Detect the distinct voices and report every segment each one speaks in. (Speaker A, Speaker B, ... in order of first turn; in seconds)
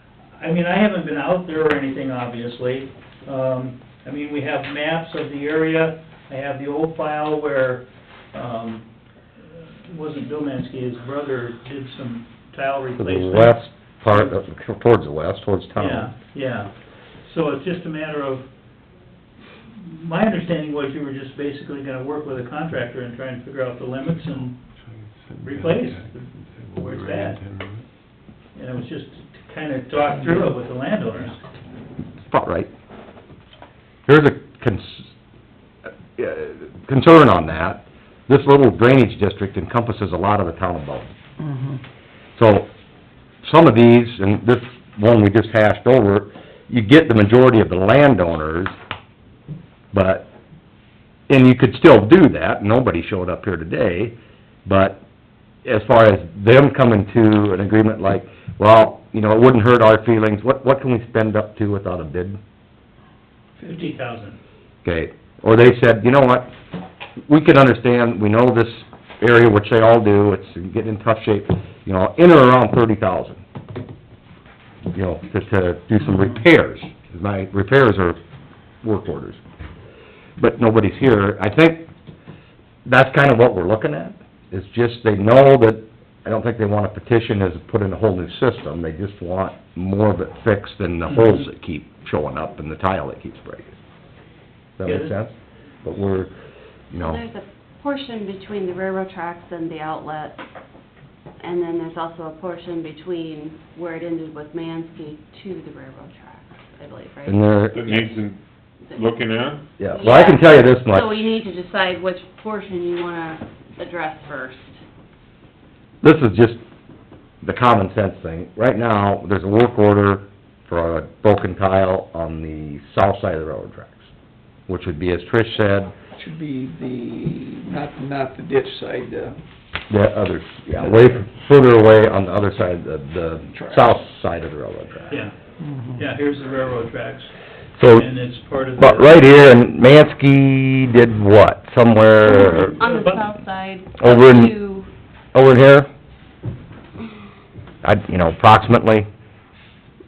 Speaker A: 0.4-8.8, 9.5-14.3, 15.7-16.7, 17.2-18.4, 19.7-24.6, 25.4-27.4, 28.5-31.4, 63.6-64.4, 91.1-91.4, 94.8-95.1, 135.9-137.3, 137.9-139.3, 142.6-143.2
Speaker B: 13.0-16.1, 32.3-32.7, 34.1-35.1, 36.1-41.1, 42.4-42.7, 43.4-48.7, 49.9-50.3, 51.3-54.1, 54.6-55.0, 55.6-62.4, 64.8-66.5, 67.3-73.4, 74.9-78.2, 78.8-79.4, 80.4-81.9, 82.8-93.8, 94.8-96.3, 96.9-97.2, 107.2-108.2, 109.8-111.3, 116.0-116.6, 117.4-124.1, 124.7-125.9, 129.9-135.2, 137.8-138.1, 138.8-142.8, 144.0-144.5, 145.3-145.9, 147.8-149.1
Speaker C: 24.2-27.8, 107.7-108.4, 108.9-109.6
Speaker D: 97.0-100.4, 101.4-107.7, 108.9-109.1, 109.9-114.8, 142.2-144.9
Speaker E: 126.2-129.4, 133.5-133.9, 135.6-136.0